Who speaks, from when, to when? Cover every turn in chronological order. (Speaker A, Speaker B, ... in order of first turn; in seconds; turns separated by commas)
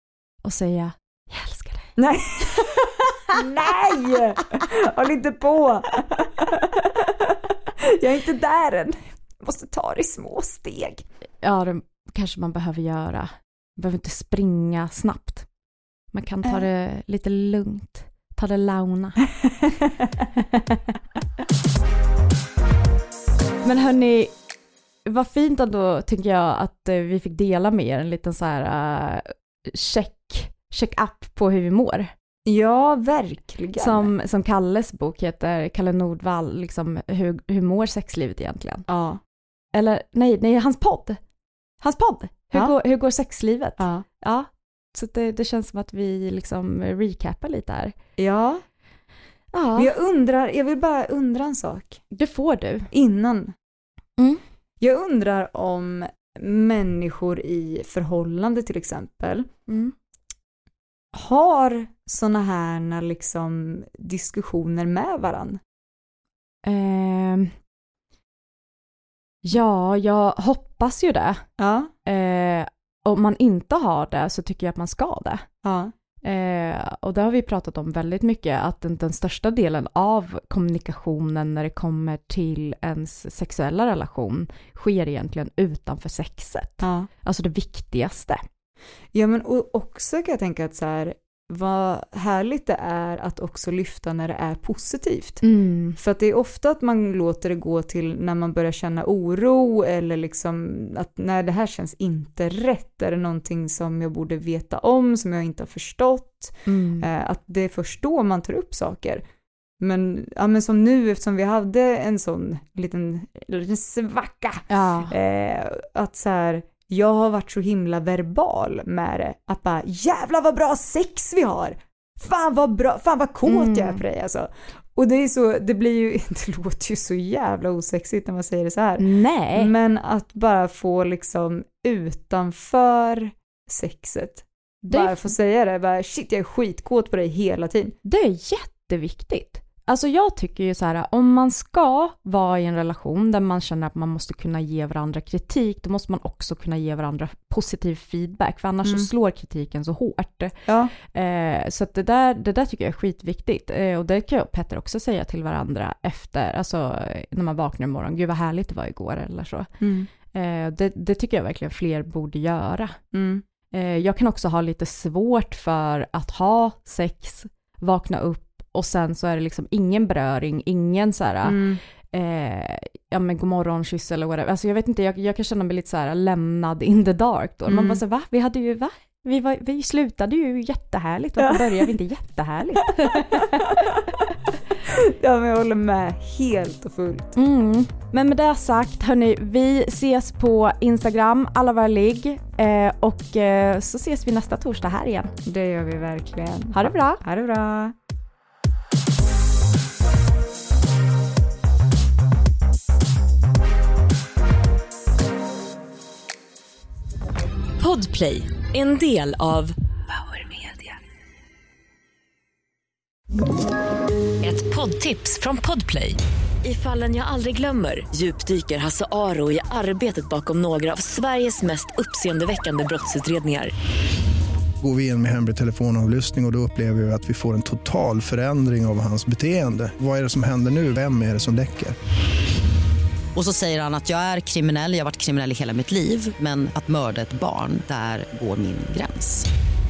Speaker A: 0.4-1.9, Speaker B: 2.0-11.0, Speaker A: 11.4-15.4, Speaker A: 16.1-19.2, Speaker A: 20.4-20.8, Speaker A: 23.6-24.3, Speaker A: 25.0-32.1, Speaker B: 32.5-34.1, Speaker A: 33.8-38.9, Speaker B: 38.9-39.2, Speaker A: 39.7-41.2, Speaker A: 41.8-47.9, Speaker B: 43.8-44.0, Speaker B: 48.2-48.6, Speaker A: 49.5-49.9, Speaker B: 49.8-52.0, Speaker A: 52.1-52.9, Speaker B: 52.9-53.5, Speaker B: 54.8-59.5, Speaker A: 59.7-59.9, Speaker B: 61.1-65.6, Speaker A: 66.6-67.5, Speaker A: 69.4-71.4, Speaker B: 71.6-71.9, Speaker A: 72.0-75.4, Speaker B: 75.6-75.9, Speaker A: 76.2-88.4, Speaker B: 86.8-87.1, Speaker B: 89.1-95.4, Speaker A: 95.4-96.0, Speaker B: 96.0-109.2, Speaker A: 106.7-107.1, Speaker B: 109.8-137.9, Speaker A: 114.7-115.1, Speaker A: 123.5-124.0, Speaker A: 129.0-129.7, Speaker A: 134.9-135.3, Speaker A: 138.0-159.7, Speaker B: 150.7-150.9, Speaker B: 159.8-160.1, Speaker A: 160.2-163.0, Speaker B: 163.1-163.4, Speaker A: 163.7-183.8, Speaker B: 171.4-171.8, Speaker B: 177.7-178.0, Speaker B: 181.4-181.9, Speaker B: 183.1-184.1, Speaker B: 184.8-187.3, Speaker A: 187.3-195.3, Speaker B: 195.4-197.9, Speaker A: 196.7-197.2, Speaker C: 207.8-210.9, Speaker C: 214.4-223.7, Speaker D: 224.8-231.9, Speaker E: 233.3-239.5